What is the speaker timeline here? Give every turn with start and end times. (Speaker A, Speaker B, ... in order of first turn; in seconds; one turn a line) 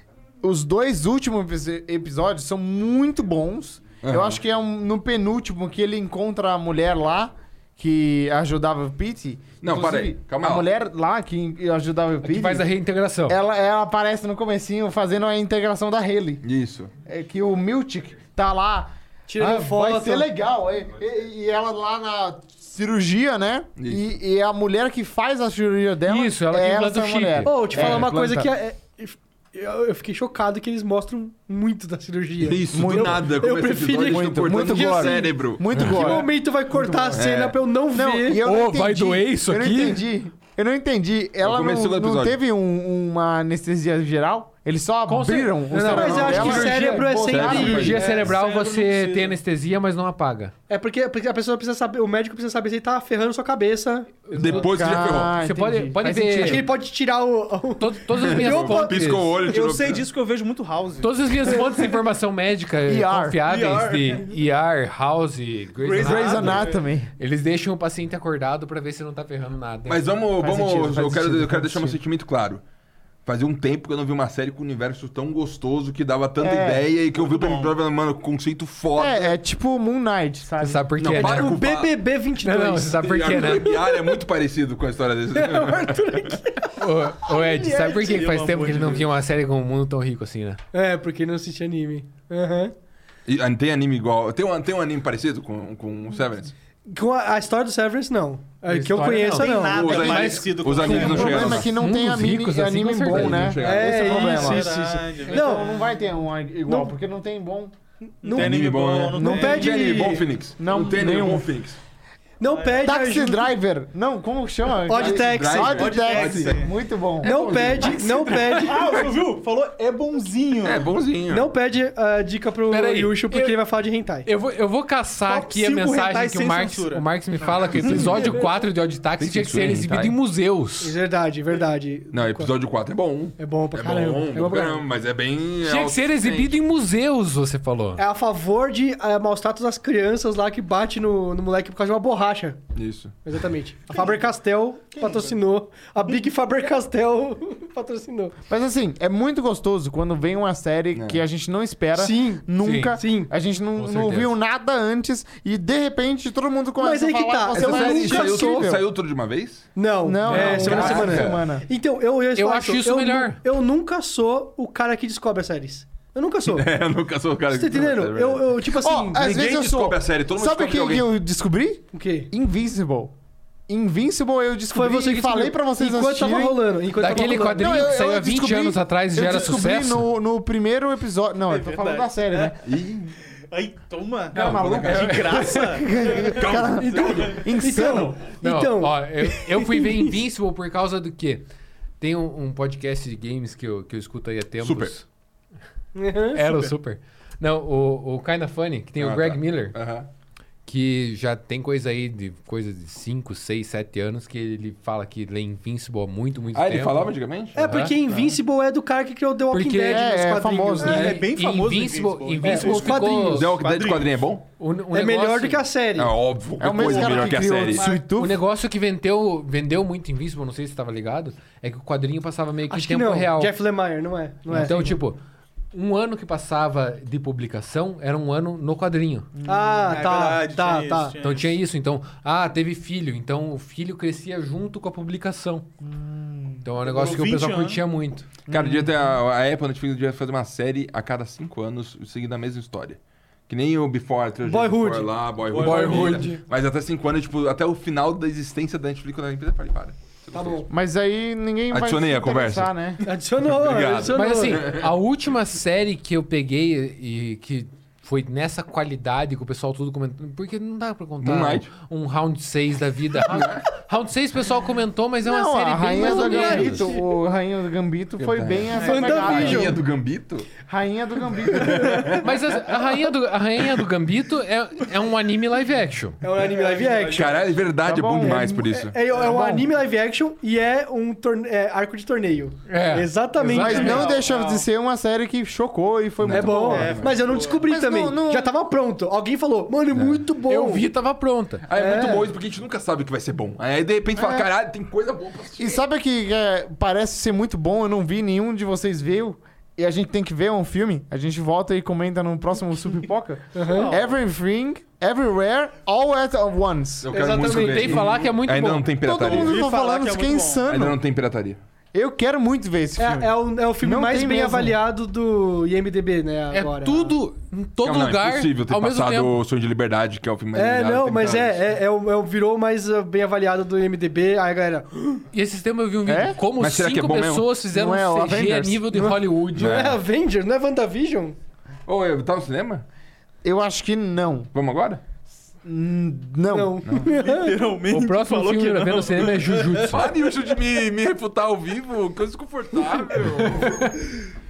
Speaker A: 0.4-12.7
Speaker B: 4.0-4.4
Speaker B: 9.6-10.7
Speaker C: 12.2-13.4
Speaker A: 13.3-16.4
Speaker B: 16.4-16.9
Speaker A: 17.1-28.5
Speaker D: 19.3-20.3
Speaker B: 23.8-24.1
Speaker C: 26.1-28.0
Speaker D: 27.4-38.4
Speaker B: 32.4-36.3
Speaker A: 32.7-33.3
Speaker A: 34.0-37.2
Speaker B: 37.1-37.6
Speaker A: 37.9-48.0
Speaker C: 38.4-40.0
Speaker B: 41.4-42.4
Speaker C: 45.1-50.5
Speaker D: 45.7-49.2
Speaker B: 45.9-48.3
Speaker E: 48.3-49.3
Speaker D: 50.7-54.3
Speaker C: 54.3-56.7
Speaker B: 54.4-55.4
Speaker A: 54.4-56.7
Speaker D: 56.4-59.0
Speaker C: 57.8-59.4
Speaker B: 58.2-60.1
Speaker E: 59.5-61.1
Speaker C: 61.0-70.2
Speaker A: 62.9-63.4
Speaker E: 63.4-64.3
Speaker E: 65.8-66.8
Speaker A: 66.0-67.1
Speaker B: 69.9-72.6
Speaker A: 70.4-72.0
Speaker B: 73.3-79.4
Speaker A: 76.4-76.9
Speaker E: 77.1-77.8
Speaker A: 79.0-80.9
Speaker C: 80.6-81.6
Speaker B: 81.0-82.0
Speaker D: 81.1-84.2
Speaker C: 82.4-83.7
Speaker B: 83.0-86.4
Speaker D: 85.3-86.8
Speaker C: 86.8-90.6
Speaker E: 87.5-89.1
Speaker D: 90.7-92.7
Speaker B: 93.3-96.5
Speaker D: 96.9-100.3
Speaker C: 98.7-103.6
Speaker E: 99.3-101.7
Speaker B: 99.6-101.7
Speaker A: 101.0-104.7
Speaker B: 103.1-104.2
Speaker D: 103.6-105.7
Speaker E: 103.8-105.8
Speaker A: 105.3-107.7
Speaker D: 106.7-106.9
Speaker E: 108.2-110.0
Speaker D: 108.2-108.6
Speaker B: 108.3-111.8
Speaker A: 109.2-109.7
Speaker D: 109.2-110.3
Speaker A: 110.6-111.5
Speaker D: 112.4-113.5
Speaker E: 112.5-112.8
Speaker A: 112.8-117.5
Speaker D: 114.9-115.9
Speaker B: 114.9-119.2
Speaker E: 115.6-116.7
Speaker D: 117.2-119.0
Speaker C: 117.9-118.6
Speaker E: 118.5-120.9
Speaker B: 120.6-121.5
Speaker D: 121.3-124.3
Speaker C: 122.7-123.6
Speaker C: 124.2-130.9
Speaker E: 125.3-127.1
Speaker B: 127.7-128.4
Speaker E: 127.7-128.2
Speaker B: 129.2-130.2
Speaker D: 130.8-132.5
Speaker B: 132.1-136.6
Speaker D: 133.4-134.8
Speaker C: 135.6-138.0
Speaker D: 138.0-142.6
Speaker B: 142.7-143.2
Speaker D: 143.2-148.3
Speaker E: 143.9-144.3
Speaker E: 144.9-145.4
Speaker A: 148.5-158.8
Speaker B: 150.9-151.2
Speaker D: 151.9-153.3
Speaker C: 152.6-153.0
Speaker C: 153.8-154.4
Speaker D: 156.8-158.7
Speaker B: 157.5-159.8
Speaker D: 159.8-166.7
Speaker A: 160.0-161.7
Speaker C: 160.3-161.4
Speaker B: 160.6-161.4
Speaker C: 162.3-163.4
Speaker B: 166.5-168.6
Speaker D: 167.5-169.3
Speaker A: 168.7-173.1
Speaker B: 169.2-171.1
Speaker D: 171.9-172.3
Speaker A: 173.7-182.6
Speaker D: 174.7-177.9
Speaker C: 177.0-180.1
Speaker E: 181.5-182.6
Speaker B: 182.6-183.1
Speaker E: 183.4-187.4
Speaker C: 184.3-185.3
Speaker B: 184.3-185.4
Speaker A: 184.3-188.2
Speaker B: 186.3-187.4
Speaker D: 186.8-190.2
Speaker C: 188.4-191.5
Speaker C: 192.0-195.1
Speaker B: 194.6-194.9
Speaker D: 195.9-196.5
Speaker C: 196.3-199.8
Speaker B: 199.0-200.1
Speaker C: 200.7-208.0
Speaker B: 206.6-208.4
Speaker D: 207.6-211.1
Speaker C: 209.5-210.2
Speaker A: 209.9-211.1
Speaker C: 210.8-213.5
Speaker E: 210.8-214.2
Speaker D: 212.4-213.5
Speaker B: 213.2-214.4
Speaker C: 214.6-215.7
Speaker D: 214.9-216.1
Speaker B: 216.0-217.9
Speaker A: 216.6-218.4
Speaker E: 216.7-218.0
Speaker C: 218.2-223.5
Speaker D: 222.7-225.0
Speaker C: 224.5-225.2
Speaker C: 225.7-229.3
Speaker A: 229.3-230.0
Speaker D: 229.5-231.2
Speaker E: 229.9-231.5
Speaker C: 231.2-235.7
Speaker A: 235.8-236.7
Speaker C: 236.6-238.3
Speaker E: 236.8-237.8
Speaker A: 238.5-239.2
Speaker B: 238.5-250.7
Speaker D: 244.4-246.4
Speaker C: 245.6-246.3
Speaker D: 250.3-250.7
Speaker A: 250.7-253.0
Speaker B: 251.7-254.9
Speaker D: 253.0-254.7
Speaker C: 254.1-266.9
Speaker B: 261.2-261.7
Speaker B: 263.3-263.6
Speaker A: 265.2-269.8
Speaker D: 266.1-266.9
Speaker B: 268.2-270.5
Speaker D: 268.8-269.8
Speaker A: 270.7-272.2
Speaker B: 271.5-272.2
Speaker C: 272.2-276.2
Speaker D: 272.6-273.1
Speaker D: 276.2-277.4
Speaker E: 276.3-277.5
Speaker B: 277.1-279.0
Speaker A: 277.8-279.7
Speaker D: 278.2-284.1
Speaker C: 282.7-284.0
Speaker A: 283.4-286.9
Speaker E: 283.5-284.6
Speaker B: 286.2-287.2
Speaker D: 286.3-290.9
Speaker E: 286.7-287.7
Speaker A: 287.5-288.5
Speaker C: 289.9-291.7
Speaker B: 291.7-295.8
Speaker D: 291.7-292.3
Speaker A: 294.1-294.5
Speaker A: 295.6-307.1
Speaker D: 303.6-303.9
Speaker E: 303.6-304.1
Speaker B: 307.0-309.6
Speaker D: 307.1-308.2
Speaker C: 307.4-308.9
Speaker A: 309.0-311.0
Speaker E: 309.2-310.6
Speaker B: 310.7-311.6
Speaker A: 311.9-314.8
Speaker D: 313.0-317.1
Speaker C: 316.5-319.4
Speaker B: 317.8-321.6
Speaker D: 320.6-325.2
Speaker C: 325.3-329.9
Speaker A: 326.1-326.4
Speaker B: 326.6-327.5
Speaker A: 327.7-328.8
Speaker D: 328.9-331.4
Speaker B: 329.6-330.0
Speaker B: 331.9-332.9
Speaker A: 333.4-334.5
Speaker B: 334.5-335.0
Speaker A: 335.6-336.8
Speaker D: 336.5-337.6
Speaker E: 337.1-340.1
Speaker C: 337.9-340.1
Speaker B: 339.9-343.9
Speaker C: 343.4-343.9